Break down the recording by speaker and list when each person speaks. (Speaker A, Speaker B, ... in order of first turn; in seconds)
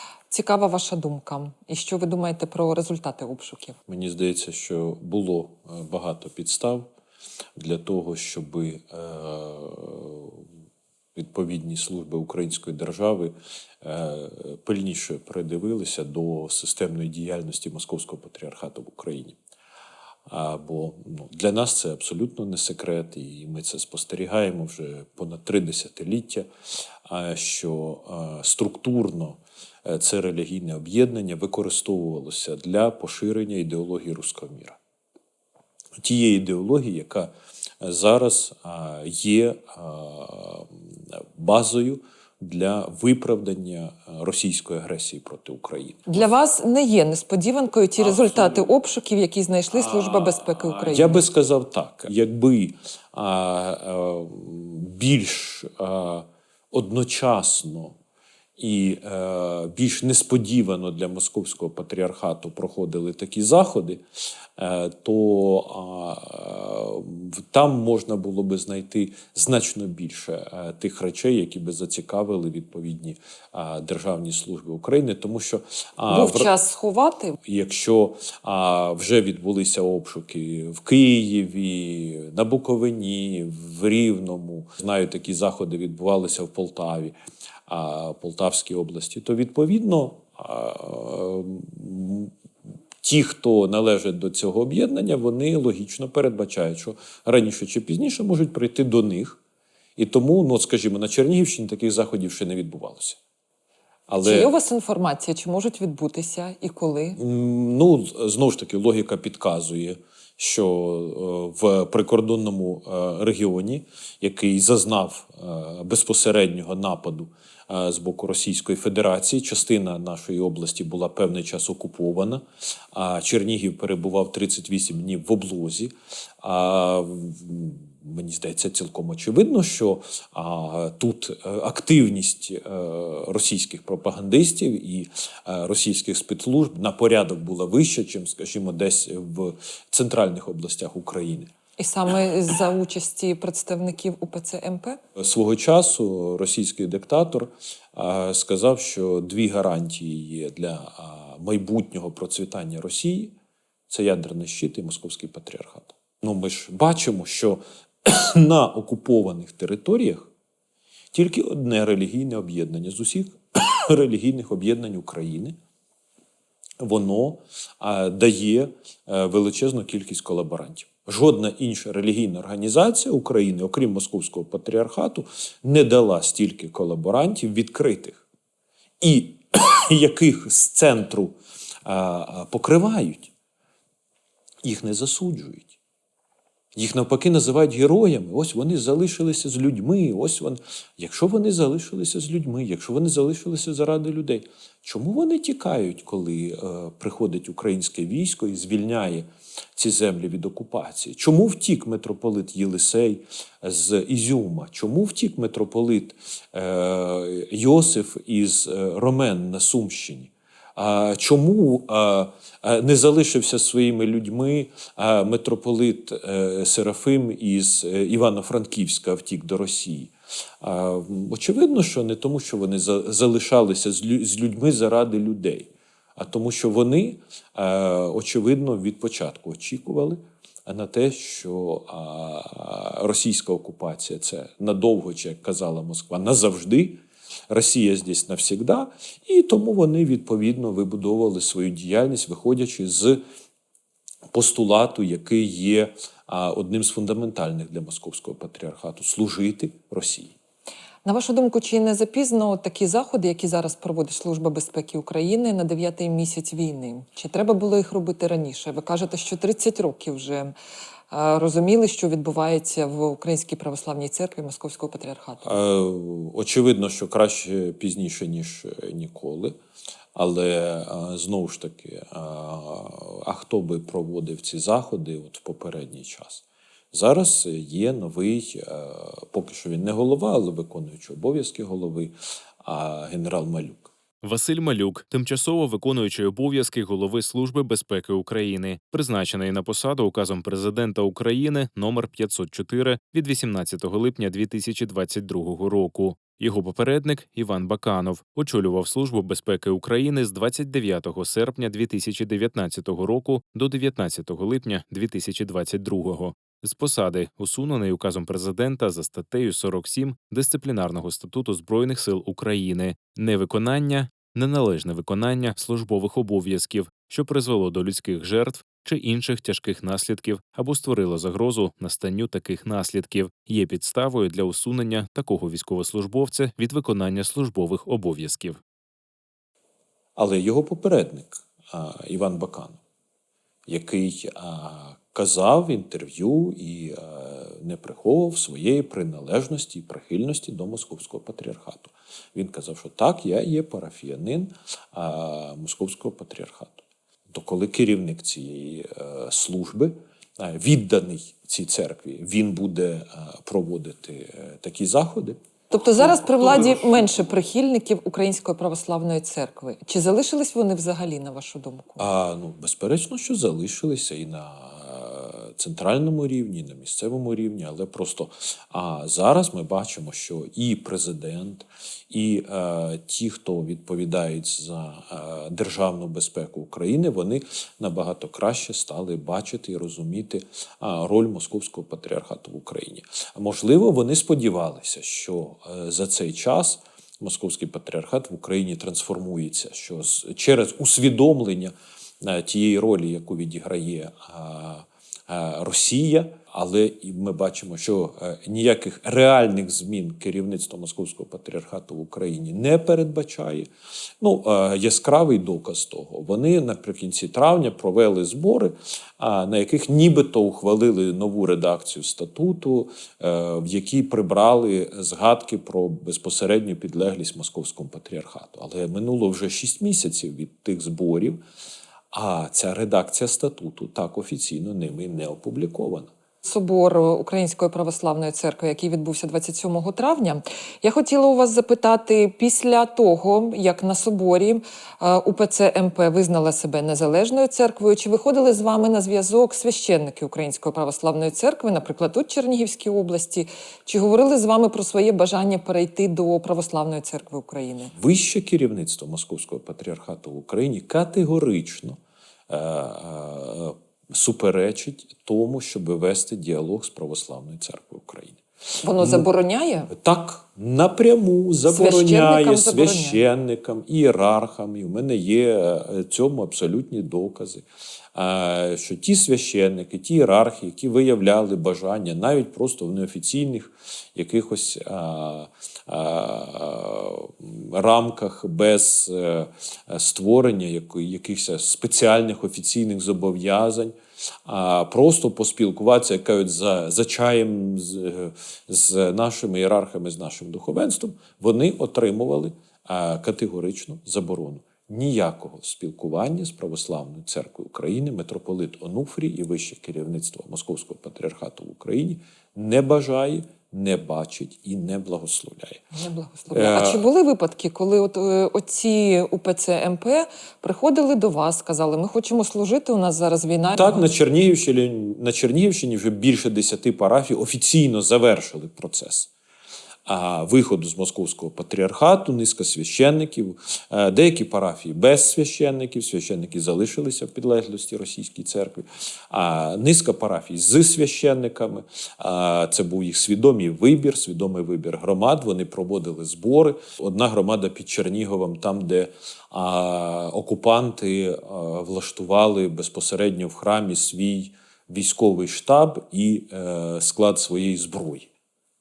Speaker A: 0.3-3.8, 46.1-51.2, 76.1-77.4, 104.2-107.2, 141.8-145.0, 251.1-260.6, 261.1-265.5, 355.7-362.1, 426.4-447.9, 458.8-459.9, 461.7-463.2, 505.9-514.1
Speaker B: 3.9-6.9, 7.6-10.4, 11.2-19.4, 20.3-26.5, 27.1-34.8, 36.0-46.3, 48.0-48.7, 49.7-58.0, 58.6-64.0, 64.6-76.5, 77.4-87.2, 87.7-92.3, 93.0-99.4, 100.0-103.2, 104.1-104.5, 107.2-141.5, 145.2-153.3, 153.9-160.3, 161.1-165.6, 166.8-178.2, 179.0-183.3, 184.6-185.8, 186.8-243.2, 244.3-250.4, 265.4-269.6, 270.1-283.9, 330.2-332.8, 333.7-355.4, 355.9-357.3, 362.0-403.7, 404.2-421.4, 422.1-426.1, 447.9-452.0, 452.5-458.4, 459.0-459.3, 459.9-505.8, 506.5-507.1, 513.8-519.3, 520.1-548.3
Speaker C: 284.2-328.6